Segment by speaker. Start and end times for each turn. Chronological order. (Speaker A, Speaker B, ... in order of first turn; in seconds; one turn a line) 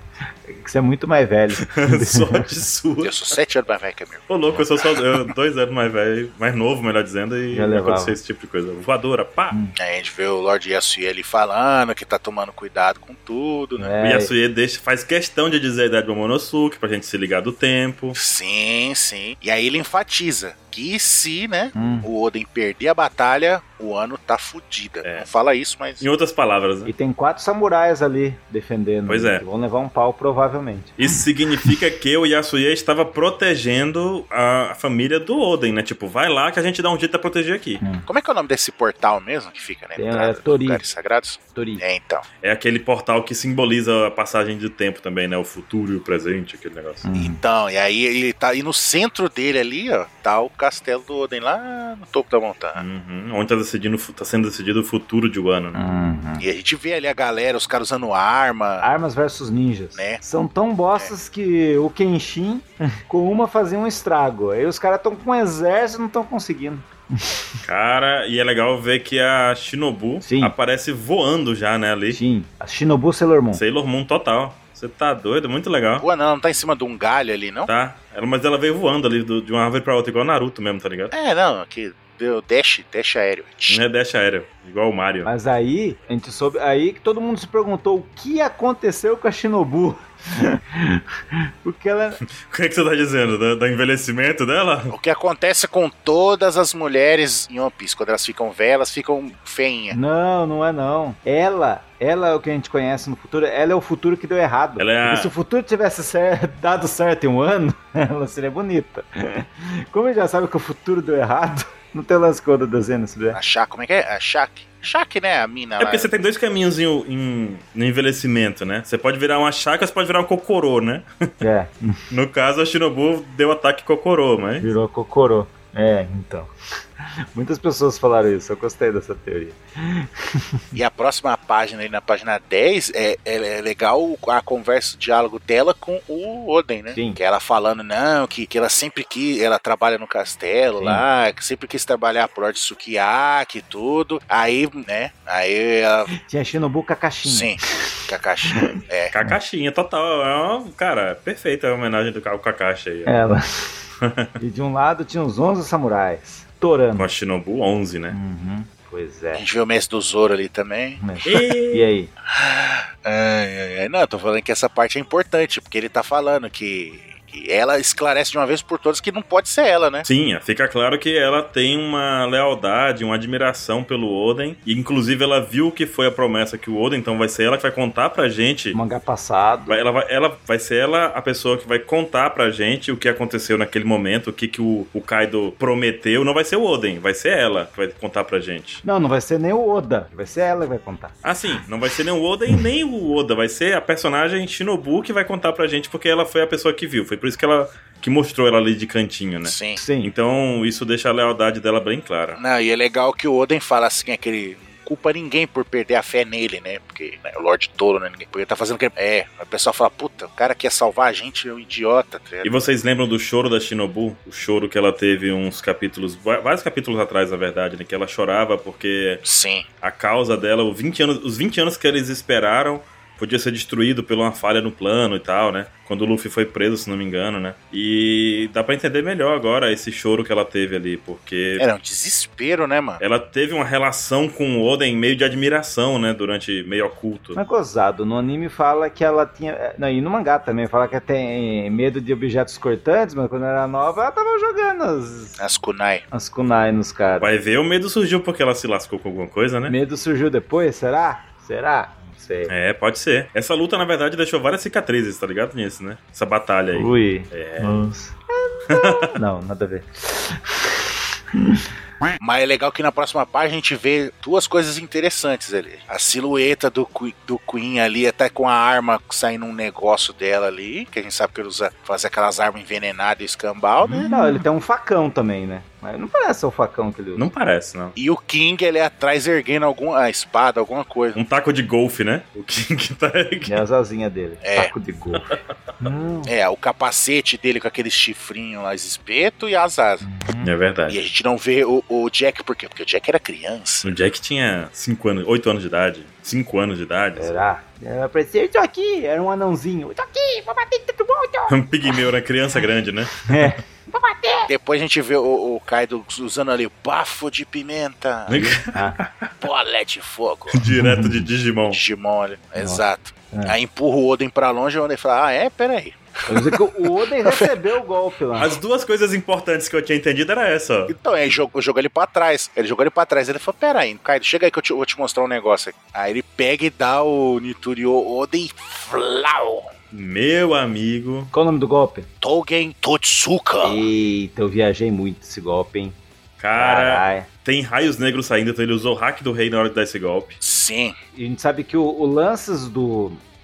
Speaker A: 0.5-2.5
Speaker B: 1.6-3.3
Speaker C: 3.0-5.1
Speaker B: 4.3-9.6
Speaker A: 7.5-8.2
Speaker C: 9.8-13.9
Speaker A: 13.8-14.3
Speaker B: 14.0-18.2
Speaker C: 18.1-26.1
Speaker A: 21.8-22.1
Speaker B: 26.0-26.9
Speaker A: 26.9-31.7
Speaker B: 29.1-29.4
Speaker B: 31.0-37.8
Speaker A: 37.8-38.1
Speaker C: 38.1-42.2
Speaker A: 40.0-40.8
Speaker A: 41.5-41.8
Speaker B: 42.4-47.0
Speaker A: 47.0-47.4
Speaker C: 47.2-52.8
Speaker B: 52.8-55.8
Speaker A: 55.7-56.5
Speaker C: 56.4-58.9
Speaker A: 58.8-67.4
Speaker C: 60.0-60.2
Speaker B: 67.6-72.2
Speaker A: 70.2-70.5
Speaker A: 72.1-73.6
Speaker B: 73.5-76.1
Speaker C: 76.0-77.7
Speaker B: 77.7-81.1
Speaker C: 81.1-83.8
Speaker B: 83.7-85.3
Speaker A: 85.2-91.0
Speaker A: 91.6-92.2
Speaker B: 92.4-94.9
Speaker C: 94.9-100.0
Speaker A: 99.9-113.4
Speaker B: 104.8-105.3
Speaker C: 113.3-116.1
Speaker B: 115.8-121.1
Speaker A: 121.4-122.0
Speaker B: 122.1-124.7
Speaker A: 124.6-126.5
Speaker A: 127.3-130.4
Speaker C: 130.7-146.1
Speaker A: 136.9-137.2
Speaker A: 140.8-141.0
Speaker A: 146.2-149.4
Speaker C: 147.2-149.1
Speaker B: 149.1-153.2
Speaker A: 153.1-153.8
Speaker B: 154.0-154.3
Speaker A: 154.4-157.1
Speaker B: 157.0-158.2
Speaker A: 158.1-159.5
Speaker C: 159.3-161.0
Speaker A: 161.0-162.1
Speaker B: 161.2-161.9
Speaker C: 162.3-170.1
Speaker B: 170.1-178.8
Speaker A: 178.7-179.8
Speaker B: 179.7-188.8
Speaker A: 188.8-191.2
Speaker B: 191.2-202.4
Speaker C: 199.4-199.8
Speaker A: 199.8-200.1
Speaker C: 202.4-212.5
Speaker B: 212.4-219.2
Speaker C: 219.2-219.7
Speaker B: 219.8-231.7
Speaker C: 231.6-233.0
Speaker B: 233.0-237.4
Speaker A: 237.3-245.4
Speaker C: 245.4-246.1
Speaker A: 246.1-247.3
Speaker B: 247.2-249.8
Speaker A: 249.7-252.5
Speaker B: 252.5-257.8
Speaker A: 256.7-261.6
Speaker B: 258.7-259.1
Speaker C: 262.2-274.1
Speaker B: 273.8-274.1
Speaker A: 274.1-277.3
Speaker B: 277.2-277.9
Speaker C: 278.0-281.2
Speaker B: 281.1-283.6
Speaker A: 283.5-286.3
Speaker C: 284.4-284.7
Speaker C: 286.2-290.1
Speaker A: 290.0-290.5
Speaker B: 290.4-291.0
Speaker C: 290.9-293.9
Speaker B: 293.8-297.4
Speaker A: 297.2-302.0
Speaker B: 301.5-303.5
Speaker A: 303.2-304.5
Speaker C: 304.5-308.6
Speaker B: 308.3-309.3
Speaker A: 308.7-309.0
Speaker C: 309.4-310.6
Speaker B: 310.5-311.8
Speaker A: 310.7-311.3
Speaker C: 311.7-317.5
Speaker A: 312.6-313.6
Speaker A: 316.3-318.6
Speaker B: 318.4-320.9
Speaker C: 320.9-329.7
Speaker B: 329.9-331.3
Speaker A: 331.3-332.1
Speaker C: 332.2-333.9
Speaker A: 333.6-336.0
Speaker B: 336.4-340.4
Speaker A: 336.6-337.3
Speaker C: 340.4-340.9
Speaker A: 341.1-343.2